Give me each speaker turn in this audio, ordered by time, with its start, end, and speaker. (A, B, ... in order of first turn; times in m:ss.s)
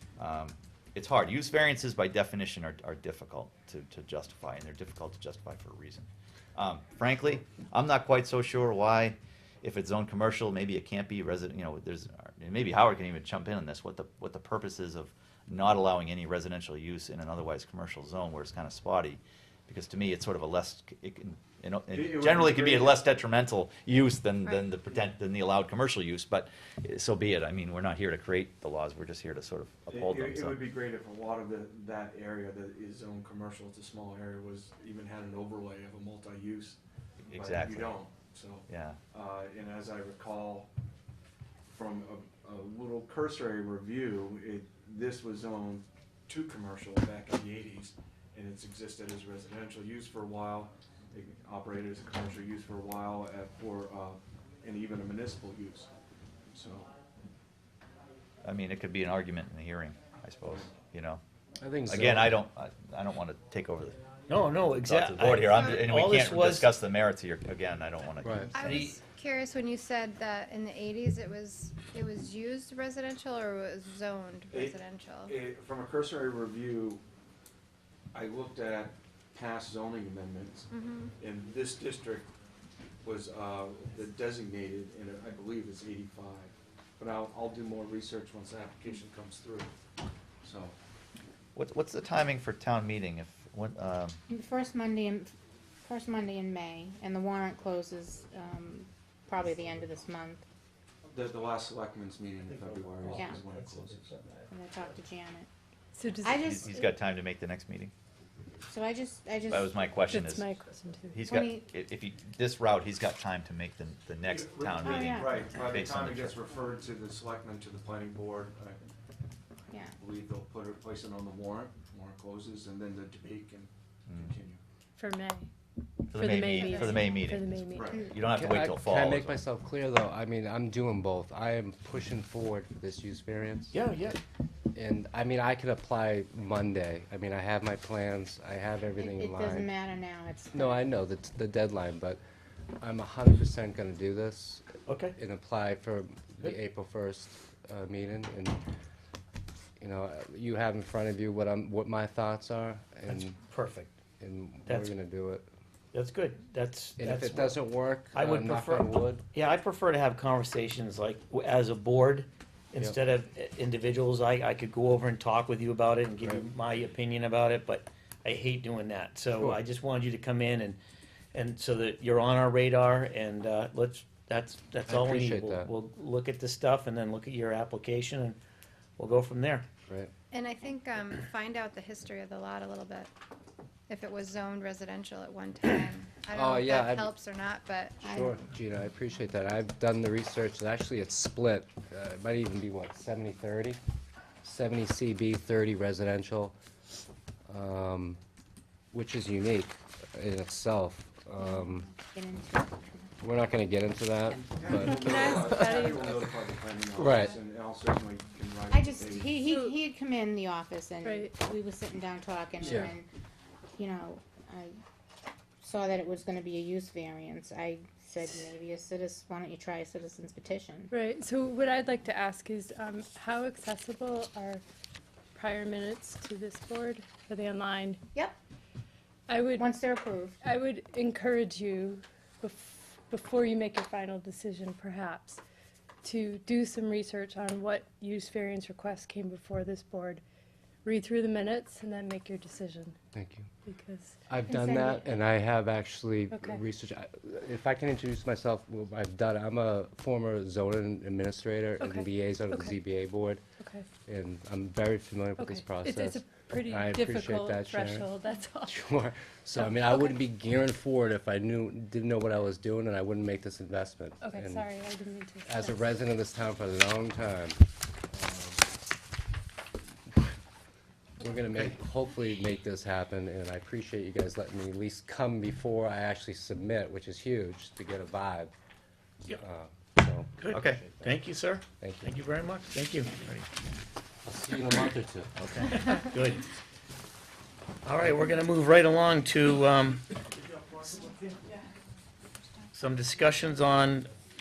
0:00.2-0:30.6 A
0:21.9-0:23.0 B
0:24.4-0:24.7 C
0:29.9-0:36.8 B
0:37.2-0:38.0 A
0:37.3-0:40.7 B
0:38.7-0:39.0 A
0:41.7-0:55.9 B
0:56.5-0:56.9 B
0:58.4-1:01.2 A
1:01.6-1:02.4 D
1:01.9-1:04.0 A
1:04.3-1:06.7 E
1:04.8-1:08.9 A
1:08.2-1:08.5 D
1:08.6-1:15.3 C
1:08.6-1:08.9 E
1:14.5-1:17.0 B
1:18.1-1:20.7 B
1:20.7-1:21.1 C
1:21.2-1:22.3 B
1:23.0-1:29.7 B
1:30.4-1:30.8 B
1:31.6-1:34.2 A
1:34.3-1:35.3 F
1:35.8-1:40.4 F
1:41.1-1:44.1 B
1:42.5-1:44.9 E
1:43.2-1:43.4 F
1:44.5-1:45.5 F
1:46.0-1:46.8 G
1:46.2-1:46.8 F
1:46.3-1:47.9 A
1:48.7-1:49.9 F
1:49.5-1:50.5 A
1:50.0-1:51.4 G
1:51.1-1:56.4 A
1:51.3-1:51.7 F
1:54.3-1:58.9 B
1:54.8-1:55.5 F
1:59.7-2:00.0 F
2:00.0-2:04.6 B
2:05.0-2:05.5 G
2:06.1-2:09.4 A
2:06.1-2:08.0 G
2:06.7-2:07.1 F
2:07.7-2:08.0 B
2:08.2-2:13.8 D
2:13.7-2:14.2 E
2:14.7-2:19.7 D
2:19.0-2:20.8 F
2:20.5-2:22.2 D
2:22.8-2:28.6 D
2:24.9-2:25.1 E
2:29.8-2:33.4 D
2:33.1-2:33.9 E
2:34.2-2:35.5 D
2:34.7-2:34.9 E
2:35.9-2:50.8 E
2:37.0-2:39.2 D
2:51.3-2:58.4 E
2:54.9-2:55.7 D
2:59.0-2:59.7 E
3:00.3-3:03.1 C
3:03.9-3:08.2 C
3:06.3-3:07.1 D
3:08.0-3:13.8 D
3:08.0-3:08.4 F
3:14.4-3:16.6 D
3:17.5-3:18.2 D
3:18.9-3:21.9 D
3:21.4-3:23.1 F
3:23.2-3:25.8 D
3:24.4-3:29.4 B
3:24.8-3:26.3 G
3:27.0-3:27.4 D
3:28.7-3:33.1 F
3:29.4-3:29.8 G
3:31.0-3:31.3 G
3:32.6-3:32.9 D
3:33.8-3:34.7 F
3:35.6-3:40.9 F
3:40.9-3:44.6 G
3:45.3-3:48.0 G
3:49.3-3:49.7 G
3:49.5-3:50.4 F
3:50.4-3:55.4 G
3:56.0-4:00.2 G
4:00.8-4:03.0 G
4:03.1-4:03.5 D
4:03.6-4:04.2 G
4:04.3-4:13.4 D
4:04.5-4:05.1 F
4:06.3-4:06.6 G
4:11.8-4:12.7 G
4:13.6-4:13.9 G
4:14.0-4:18.1 D
4:15.4-4:18.8 G
4:18.7-4:24.7 D
4:19.6-4:20.1 G
4:24.2-4:25.8 G
4:25.4-4:28.7 D
4:31.2-4:38.5 D
4:39.4-4:41.2 D
4:40.4-4:43.5 E
4:40.5-4:40.8 A
4:41.8-4:42.2 D
4:44.2-4:45.3 D
4:45.4-4:45.7 A
4:45.4-4:46.5 E
4:47.8-4:50.1 E
4:52.7-4:54.1 E